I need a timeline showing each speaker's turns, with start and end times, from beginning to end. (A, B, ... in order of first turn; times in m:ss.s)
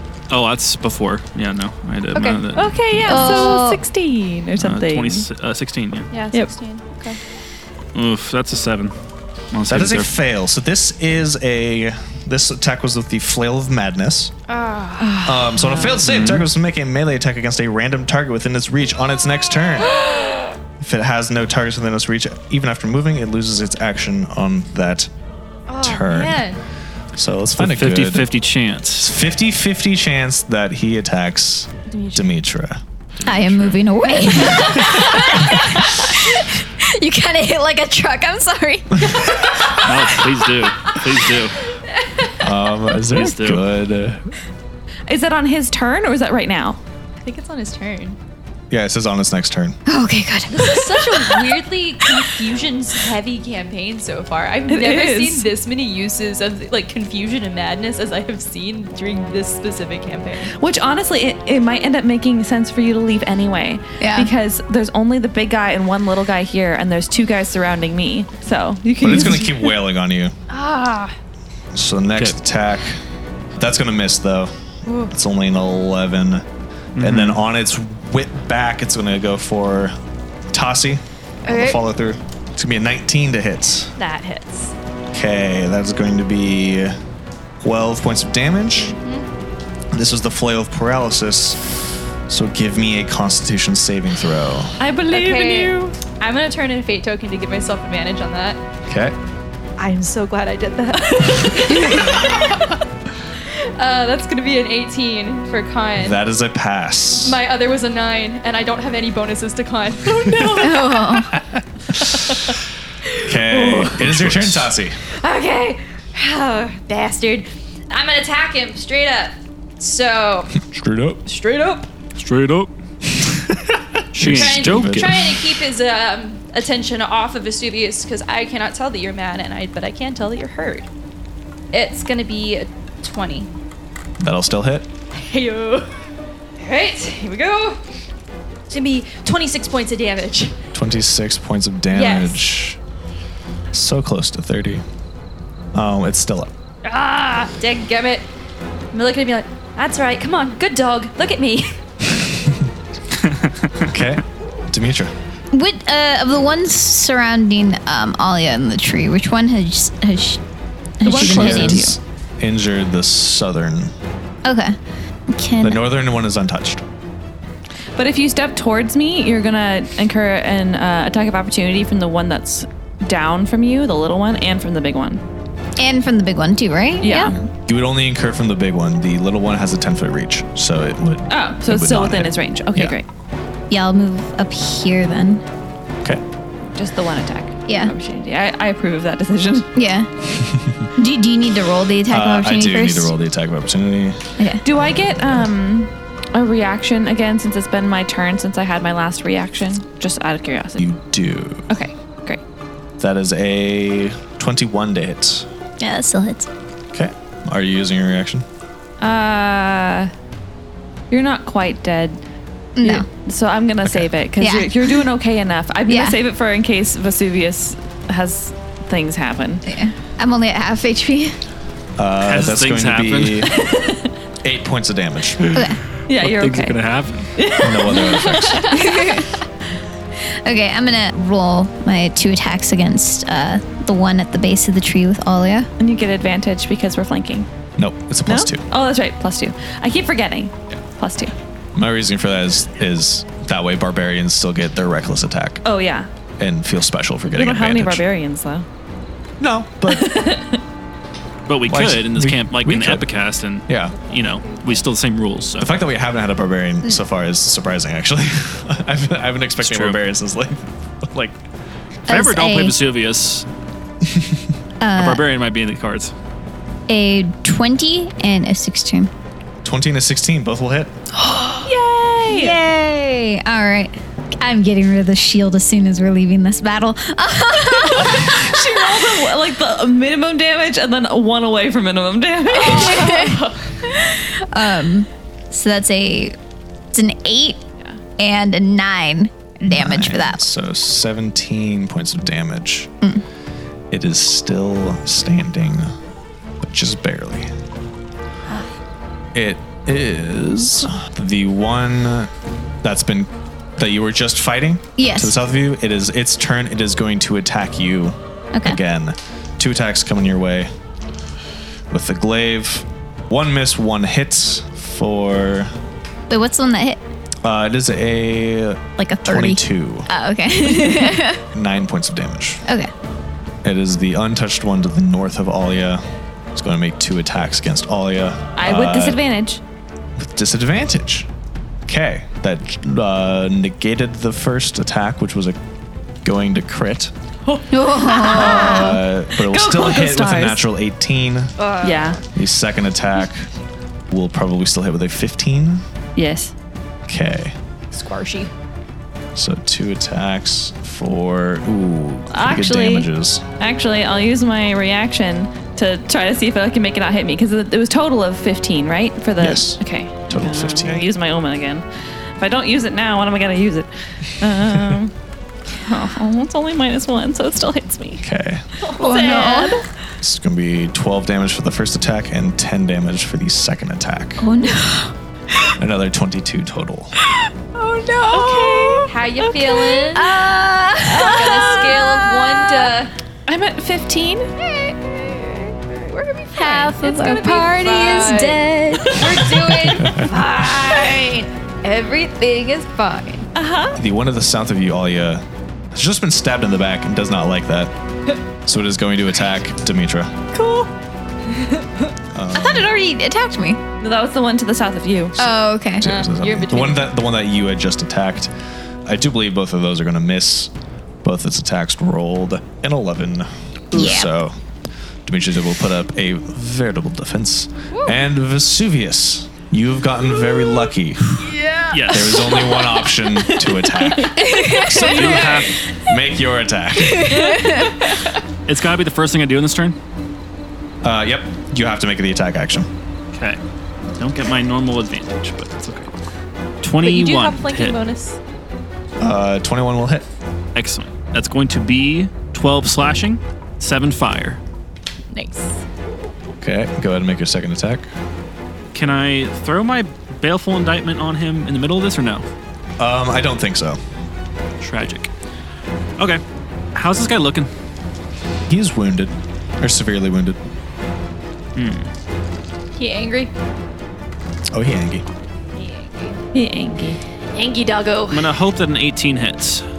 0:00.3-0:03.3 A
0:02.1-0:03.8 B
0:03.0-0:05.3 C
0:03.1-0:03.8 D
0:04.6-0:06.1 A
0:06.1-0:07.2 B
0:07.9-0:08.9 A
0:09.5-0:10.1 A
0:09.7-0:14.3 E
0:14.5-0:15.2 B
0:15.0-0:16.0 C
0:15.2-0:20.0 E
0:16.0-0:16.4 A
0:19.9-0:20.4 B
0:20.8-0:25.1 E
0:25.7-0:26.6 B
0:25.8-0:26.4 E
0:27.2-0:28.3 E
0:27.6-0:29.1 A
0:29.0-0:32.8 E
0:31.9-0:32.3 B
0:33.2-0:33.8 A
0:33.2-0:39.2 D
0:34.1-0:35.1 B
0:39.8-0:41.6 A
0:42.4-0:44.3 E
0:43.1-0:43.6 A
0:45.1-0:46.8 C
0:47.2-0:48.2 B
0:48.7-0:49.8 E
0:49.8-0:51.6 D
0:50.5-1:00.5 B
0:54.7-0:55.4 C
1:00.6-1:09.7 C
1:04.0-1:04.3 D
1:09.0-1:10.3 E
1:10.5-1:11.1 B
1:11.7-1:13.0 E
1:13.6-1:14.5 E
1:14.8-1:15.1 B
1:15.1-1:16.4 E
1:17.0-1:17.4 A
1:17.0-1:19.9 E
1:20.5-1:23.9 E
1:21.4-1:21.8 B
1:24.0-1:24.7 B
1:25.1-1:27.0 E
1:27.6-1:28.9 E
1:28.7-1:29.3 B
1:29.9-1:31.6 E
1:32.3-1:34.7 E
1:34.8-1:35.9 C
1:35.1-1:38.6 B
1:38.9-1:39.1 E
1:39.8-1:42.8 B
1:43.6-1:46.2 B
1:46.0-1:47.4 E
1:47.2-1:51.3 B
1:50.5-1:51.3 D
1:52.0-1:52.5 B
1:52.0-1:52.4 E
1:53.2-1:55.0 E
1:53.3-1:54.0 B
1:54.0-1:54.7 A
1:55.2-2:00.6 B
2:00.7-2:01.2 E
2:01.2-2:01.9 B
2:02.2-2:02.7 A
2:03.2-2:05.4 E
2:04.1-2:05.3 A
2:04.2-2:10.9 B
2:11.7-2:13.5 B
2:14.2-2:14.9 E
2:15.1-2:15.9 B
2:16.6-2:17.8 B
2:18.7-2:20.5 B
2:20.7-2:22.8 E
2:21.9-2:22.4 B
2:23.7-2:24.8 E
2:25.7-2:26.5 E
2:26.8-2:28.3 B
2:28.9-2:31.8 B
2:33.2-2:33.8 A
2:33.8-2:35.1 E
2:35.5-2:40.4 D
2:41.0-2:41.9 D
2:41.0-2:42.0 C
2:41.0-2:43.9 E
2:44.4-2:44.8 D
2:45.3-2:45.8 D
2:45.6-2:46.8 E
2:48.0-2:55.2 C
2:55.8-2:57.3 D
2:57.0-2:57.4 C
2:57.4-3:03.0 E
3:01.3-3:03.0 C
3:03.7-3:05.4 D
3:06.7-3:09.7 C
3:07.7-3:07.9 D
3:09.7-3:10.1 D
3:11.0-3:13.1 D
3:12.1-3:14.2 E
3:14.4-3:14.6 D
3:14.6-3:20.8 C
3:15.2-3:15.4 E
3:20.8-3:21.7 E
3:21.7-3:22.4 C
3:23.0-3:25.4 E
3:25.8-3:26.5 D
3:26.9-3:28.4 E
3:29.0-3:30.1 C
3:31.1-3:32.2 C
3:32.8-3:33.1 D
3:32.8-3:39.6 C
3:33.8-3:34.1 E
3:34.4-3:35.1 D
3:35.9-3:36.2 D
3:39.6-3:41.4 D
3:42.0-3:43.5 E
3:42.2-3:43.5 A
3:43.5-3:44.1 C
3:44.4-3:45.4 E
3:45.4-3:47.2 A
3:45.5-3:45.8 D
3:46.1-3:46.8 C
3:47.3-3:48.9 C
3:47.6-3:48.6 E
3:48.7-3:49.3 D
3:50.4-3:55.7 D
3:55.8-3:57.5 C
3:57.8-3:58.6 E
3:58.2-4:01.3 C
4:01.7-4:05.6 E
4:05.6-4:06.1 C
4:06.4-4:08.0 E
4:07.3-4:08.6 C
4:09.4-4:10.2 E
4:09.9-4:10.6 C
4:11.5-4:15.8 A
4:11.7-4:13.1 E
4:13.7-4:13.9 E
4:14.1-4:14.8 B
4:15.6-4:21.4 E
4:19.6-4:20.0 A
4:22.1-4:22.8 D
4:22.1-4:23.4 A
4:24.8-4:25.2 D
4:25.0-4:26.1 A
4:26.9-4:29.1 D
4:29.6-4:30.9 E
4:31.2-4:31.7 D
4:31.6-4:32.6 C
4:32.2-4:39.2 D
4:37.8-4:43.6 C
4:42.5-4:46.4 D
4:46.9-4:47.6 D
4:48.2-4:50.4 D
4:49.6-4:52.9 E
4:53.9-4:55.9 E
4:56.6-4:57.5 E
4:59.3-5:02.3 E
5:02.8-5:10.7 E
5:05.0-5:05.4 D
5:08.5-5:08.8 D
5:11.9-5:15.7 E
5:16.3-5:17.0 D
5:17.4-5:20.1 E
5:19.0-5:21.4 D
5:21.5-5:22.6 E
5:22.6-5:22.9 D
5:23.6-5:26.0 E
5:26.5-5:29.2 E
5:28.6-5:29.6 C
5:30.2-5:31.3 E
5:31.9-5:35.6 E
5:36.2-5:37.1 E
5:37.5-5:38.3 B
5:37.7-5:39.0 D
5:38.2-5:40.6 C
5:38.3-5:41.5 E
5:41.6-5:42.2 B
5:41.8-5:42.2 C
5:42.3-5:43.5 E
5:44.1-5:45.8 E
5:46.2-5:46.5 C
5:47.1-5:47.5 E
5:47.9-5:48.5 B
5:49.4-5:53.4 E
5:52.3-5:53.1 C
5:53.6-6:01.8 C
5:59.4-6:01.0 E
6:02.4-6:05.1 C
6:05.8-6:08.2 C
6:08.2-6:08.6 E
6:08.8-6:09.7 B
6:09.0-6:09.8 D
6:09.0-6:09.8 C
6:10.2-6:14.4 E
6:14.4-6:15.7 D
6:15.8-6:17.1 E
6:17.2-6:19.1 D
6:18.3-6:20.3 B
6:18.3-6:20.1 C
6:20.1-6:22.9 D
6:21.1-6:23.1 B
6:23.5-6:24.5 C
6:24.6-6:33.5 B
6:26.5-6:29.4 D
6:29.9-6:30.2 E
6:33.5-6:34.0 C
6:33.9-6:37.9 E
6:38.6-6:40.3 E
6:40.5-6:40.9 B
6:41.4-6:42.1 B
6:42.3-6:42.9 E
6:42.5-6:43.8 D
6:44.0-6:45.4 C
6:45.4-6:46.1 D
6:46.0-6:48.5 E
6:46.0-6:47.1 B
6:49.0-6:50.7 E
6:51.2-6:54.5 E
6:53.9-6:54.3 D
6:55.2-7:01.4 E
6:57.9-6:58.2 B
7:01.4-7:02.5 B
7:01.9-7:02.4 A
7:02.1-7:07.3 E
7:03.6-7:04.3 C
7:04.3-7:05.7 D
7:05.1-7:05.8 A
7:07.0-7:08.0 D
7:07.3-7:08.3 B
7:08.6-7:10.0 A
7:11.0-7:12.9 E
7:13.3-7:13.6 A
7:14.2-7:16.1 A
7:16.8-7:18.0 A
7:17.0-7:18.4 B
7:19.2-7:20.2 E
7:20.7-7:24.6 A
7:25.3-7:25.8 B
7:26.6-7:28.1 E
7:28.9-7:32.4 A
7:33.0-7:34.0 E
7:34.8-7:35.3 A
7:36.9-7:37.7 A
7:38.7-7:40.6 E
7:41.8-7:42.1 A
7:42.9-7:43.5 B
7:44.7-7:45.2 E
7:45.7-7:46.4 B
7:46.5-7:47.2 C
7:47.5-7:48.5 B
7:48.3-7:49.8 A